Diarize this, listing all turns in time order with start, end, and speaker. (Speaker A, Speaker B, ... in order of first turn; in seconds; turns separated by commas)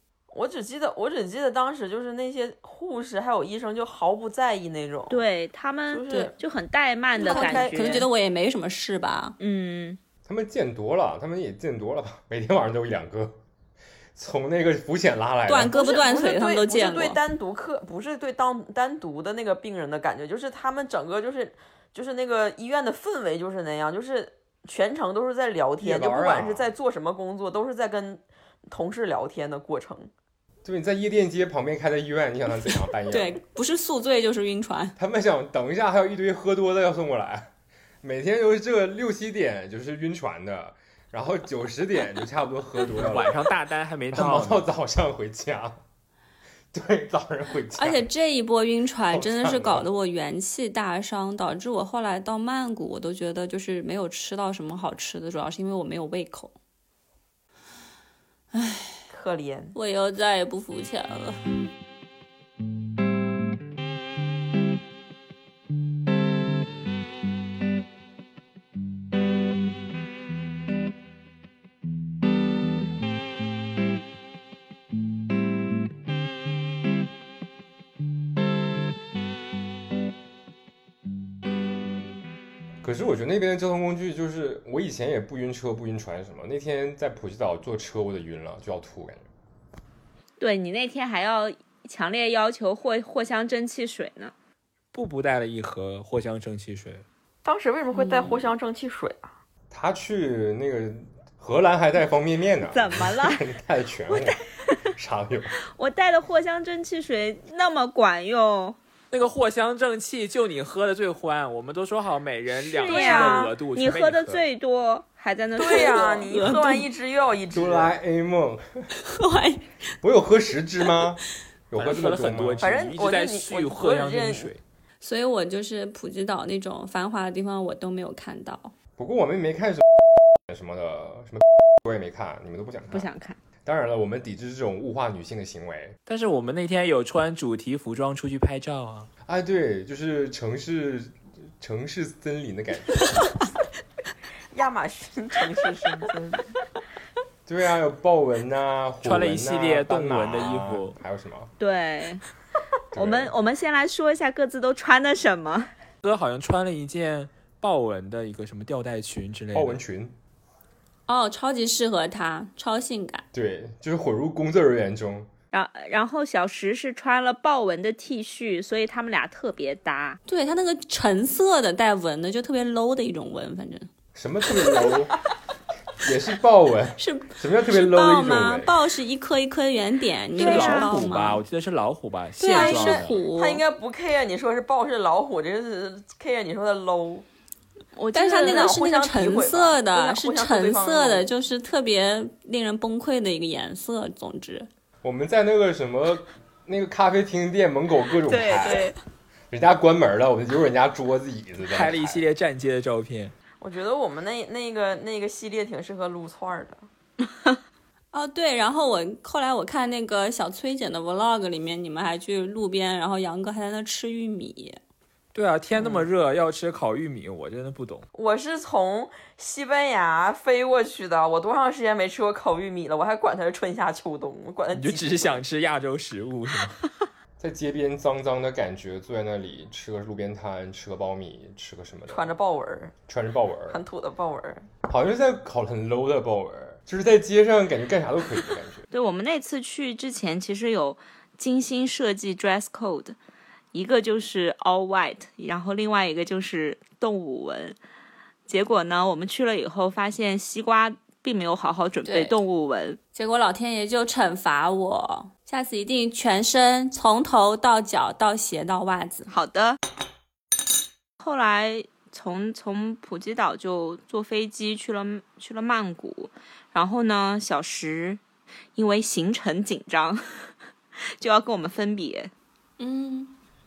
Speaker A: 0.3-5.2, Speaker B: 5.1-8.1, Speaker A: 5.9-6.3, Speaker A: 7.2-7.8, Speaker C: 7.2-9.4, Speaker B: 9.4-10.0, Speaker D: 10.2-13.4, Speaker D: 14.1-15.8, Speaker C: 15.5-17.2, Speaker A: 15.7-30.1, Speaker D: 25.8-26.7, Speaker D: 30.6-33.4, Speaker C: 33.1-35.0, Speaker D: 35.0-37.5, Speaker D: 38.0-43.4, Speaker E: 42.9-44.7, Speaker D: 44.1-45.8, Speaker D: 46.7-48.0, Speaker C: 47.7-56.5, Speaker D: 49.1-49.9, Speaker C: 58.5-59.0, Speaker A: 59.1-59.7, Speaker C: 59.7-61.4, Speaker D: 82.8-89.2, Speaker B: 90.4-94.3, Speaker E: 94.9-97.1, Speaker A: 97.4-99.3, Speaker B: 98.0-98.4, Speaker D: 99.7-104.4, Speaker B: 102.7-103.4, Speaker B: 104.1-104.8, Speaker D: 104.9-105.5, Speaker B: 105.7-108.8, Speaker E: 109.1-114.4, Speaker A: 112.7-113.5, Speaker B: 112.8-116.3, Speaker A: 115.6-117.9, Speaker C: 115.6-116.8, Speaker D: 117.5-118.6, Speaker C: 119.0-119.7, Speaker D: 120.0-122.8, Speaker E: 121.8-124.6, Speaker A: 122.6-124.5, Speaker C: 125.0-128.7, Speaker D: 129.0-129.8, Speaker D: 130.5-133.1, Speaker B: 132.9-133.4, Speaker D: 133.7-135.9, Speaker E: 136.1-139.1, Speaker D: 139.2-143.4, Speaker A: 144.5-146.5, Speaker D: 147.4-151.5, Speaker E: 149.0-150.9, Speaker B: 151.6-152.2, Speaker D: 152.9-153.3, Speaker B: 152.9-155.7, Speaker E: 156.0-159.8, Speaker D: 159.5-160.1, Speaker C: 161.1-163.2, Speaker D: 163.3-165.3, Speaker B: 165.5-170.2, Speaker C: 170.3-173.9, Speaker D: 174.1-175.1, Speaker D: 176.0-178.8, Speaker C: 177.0-181.4, Speaker E: 180.4-183.2, Speaker B: 180.4-181.0, Speaker C: 182.4-183.6, Speaker A: 182.5-187.2, Speaker B: 187.9-188.8, Speaker C: 188.1-194.7, Speaker A: 188.2-191.3, Speaker D: 195.0-198.9, Speaker B: 198.2-199.0, Speaker D: 199.5-202.2, Speaker E: 201.7-203.3, Speaker A: 203.6-206.9, Speaker C: 208.1-214.8, Speaker E: 215.3-218.1, Speaker A: 215.8-216.1, Speaker A: 218.1-225.4, Speaker E: 224.7-226.8, Speaker D: 227.4-232.4, Speaker A: 232.1-233.0, Speaker D: 233.1-233.8, Speaker A: 233.7-234.7, Speaker D: 234.8-238.8, Speaker B: 238.9-243.2, Speaker B: 243.7-247.8, Speaker B: 248.5-253.0, Speaker C: 252.0-252.4, Speaker C: 253.1-259.3, Speaker B: 259.3-259.8, Speaker B: 261.2-268.2, Speaker B: 268.8-270.2, Speaker B: 271.2-272.3, Speaker C: 272.8-273.3